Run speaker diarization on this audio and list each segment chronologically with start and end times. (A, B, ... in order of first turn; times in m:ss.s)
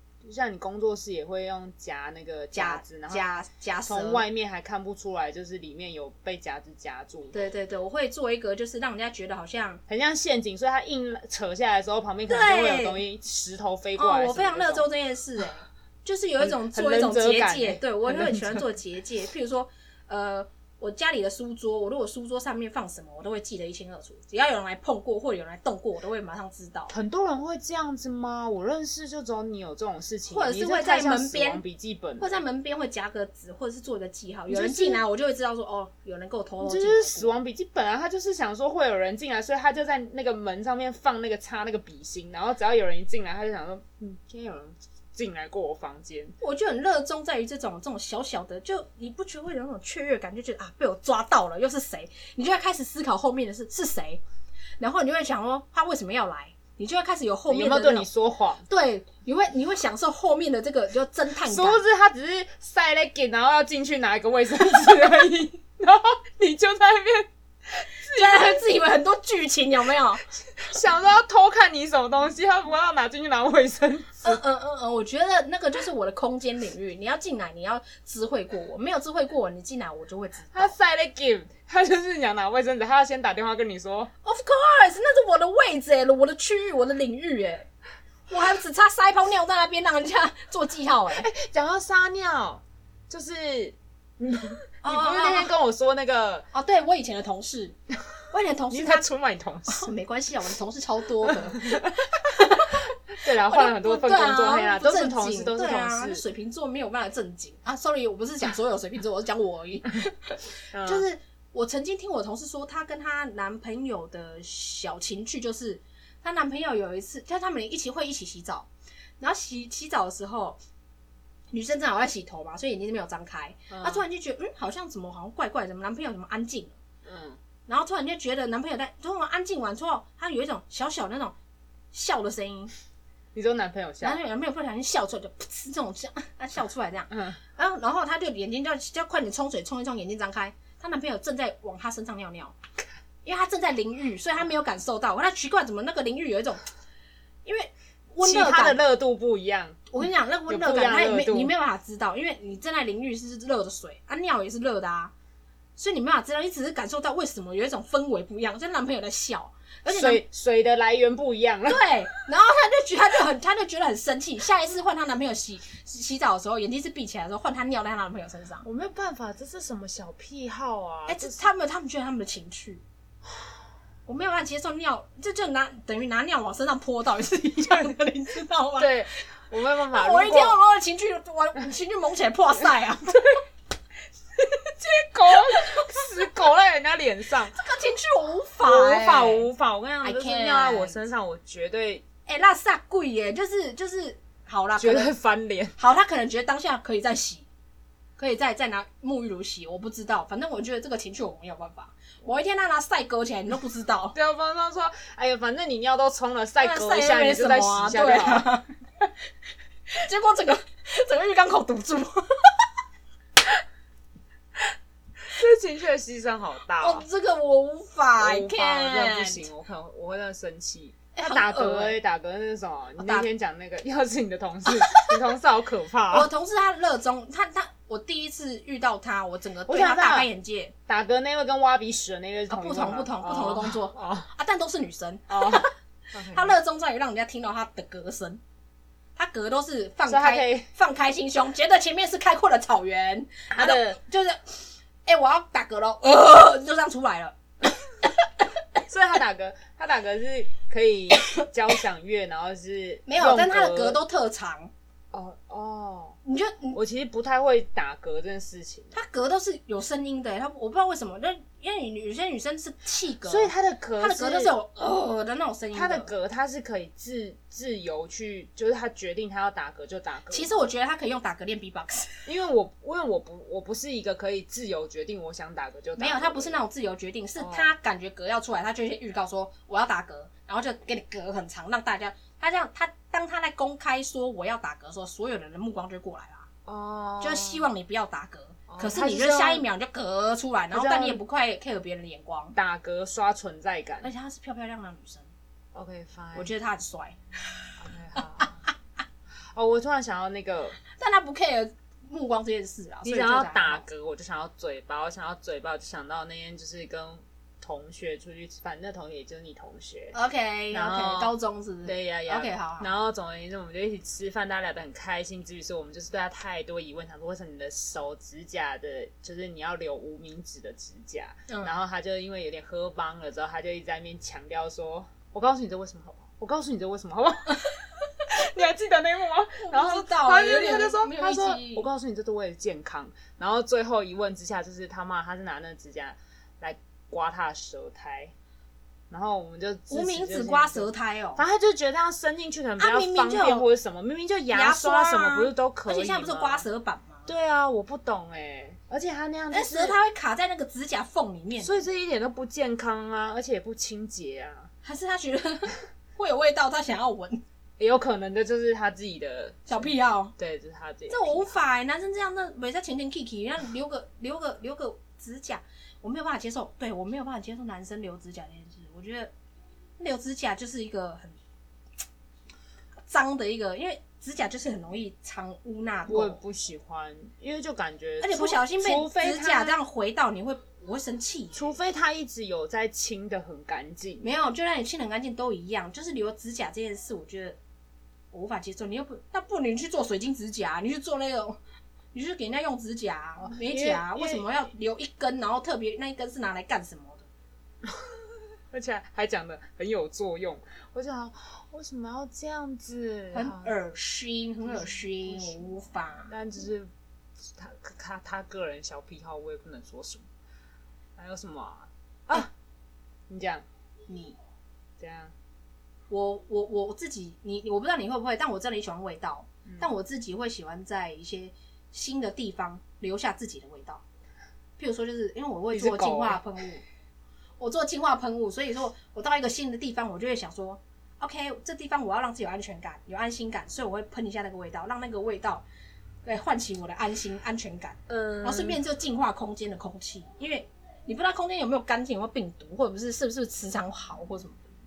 0:00.2-0:03.4 A
0:02.5-0:04.2 B
0:03.9-0:07.4 A
0:07.3-0:09.8 B
0:09.9-0:14.9 A
0:12.3-0:13.0 B
0:14.0-0:26.9 B
0:16.4-0:18.7 A
0:26.9-0:32.4 A
0:30.3-0:31.6 B
0:32.2-0:37.3 B
0:34.5-0:35.0 A
0:36.6-0:46.4 A
0:46.4-0:54.2 B
0:54.8-0:58.1 B
0:57.5-0:58.6 A
0:58.7-1:01.8 B
1:01.4-1:08.6 A
1:08.1-1:10.2 B
1:10.5-1:14.4 A
1:14.2-1:20.7 B
1:20.5-1:24.1 A
1:24.2-1:27.7 B
1:28.3-1:31.3 B
1:31.2-1:36.5 A
1:34.8-1:35.5 B
1:36.5-1:37.8 B
1:38.3-1:39.1 B
1:38.7-1:39.9 A
1:39.7-1:42.9 B
1:41.2-1:42.1 A
1:42.7-1:46.2 A
1:43.4-1:58.7 B
1:50.7-1:51.0 A
1:59.2-2:00.6 B
2:01.5-2:06.8 B
2:03.7-2:04.0 A
2:07.0-2:07.4 A
2:07.7-2:11.4 B
2:11.9-2:12.7 B
2:13.3-2:14.2 A
2:14.0-2:22.6 B
2:17.1-2:17.4 A
2:23.2-2:26.6 B
2:27.4-2:28.8 B
2:28.2-2:30.0 A
2:29.9-2:35.1 B
2:30.5-2:31.5 A
2:35.8-2:40.2 B
2:39.9-2:41.9 A
2:41.7-2:48.6 B
2:48.6-2:51.5 A
2:51.1-2:52.8 B
2:54.1-2:59.2 B
2:58.8-3:00.6 A
2:59.9-3:03.4 B
3:04.8-3:07.6 A
3:05.5-3:06.0 B
3:07.5-3:09.5 B
3:08.6-3:12.0 A
3:10.0-3:11.0 B
3:12.3-3:15.1 B
3:14.8-3:15.8 A
3:15.8-3:17.5 B
3:18.2-3:24.2 B
3:24.1-3:28.5 A
3:26.6-3:29.1 B
3:29.9-3:32.6 B
3:35.3-3:37.0 A
3:36.8-3:39.5 B
3:38.2-3:46.3 A
3:41.1-3:42.0 B
3:43.0-3:43.3 B
3:44.7-3:45.1 B
3:46.1-3:50.7 B
3:49.7-3:50.3 A
3:50.9-3:54.3 A
3:52.5-3:55.7 B
3:55.3-3:56.6 A
3:56.3-3:58.4 B
3:59.2-4:07.4 B
4:00.1-4:00.7 A
4:03.5-4:04.0 A
4:08.9-4:14.0 A
4:13.1-4:14.7 B
4:15.1-4:16.2 A
4:16.2-4:16.8 B
4:16.7-4:19.0 A
4:18.9-4:26.1 B
4:23.2-4:24.5 A
4:25.7-4:30.5 A
4:30.3-4:32.2 B
4:32.3-4:36.6 A
4:36.0-4:46.5 B
4:37.4-4:37.7 A
4:46.7-4:47.7 A
4:47.2-4:52.6 B
4:48.7-4:49.6 A
4:50.7-4:51.2 A
4:52.6-4:54.1 A
4:54.0-4:55.3 B
4:55.7-4:56.5 A
4:56.3-4:57.2 B
4:57.8-4:58.7 A
4:59.5-5:00.8 A
5:00.9-5:03.8 B
5:03.0-5:10.2 A
5:10.1-5:12.9 B
5:10.7-5:11.3 A
5:11.8-5:38.3 A
5:21.5-5:21.8 B
5:29.6-5:31.9 B
5:39.1-5:46.7 A
5:39.9-5:41.4 B
5:42.8-5:43.7 B
5:44.5-5:47.3 B
5:47.3-5:50.0 A
5:49.5-5:51.8 B
5:51.6-5:54.7 A
5:54.8-5:57.4 B
5:57.8-6:01.5 A
5:59.7-6:00.3 B
6:01.1-6:09.3 B
6:10.0-6:11.4 B
6:13.1-6:16.4 B
6:16.1-6:19.8 A
6:18.2-6:21.7 B
6:21.5-6:24.3 A
6:24.2-6:27.6 B
6:28.3-6:31.6 B
6:32.1-6:37.3 B
6:33.4-6:34.5 A
6:37.8-6:38.2 A
6:38.7-6:43.7 A
6:43.3-6:46.3 B
6:44.7-6:45.6 A
6:46.3-6:46.9 A
6:47.4-6:50.2 A
6:51.2-6:52.5 A
6:53.3-6:53.6 A
6:54.1-6:54.4 B
6:55.0-6:55.3 A
6:56.1-7:04.0 B
7:04.8-7:06.8 B
7:05.7-7:06.4 A
7:07.6-7:15.6 B
7:16.2-7:24.6 B
7:18.1-7:18.8 A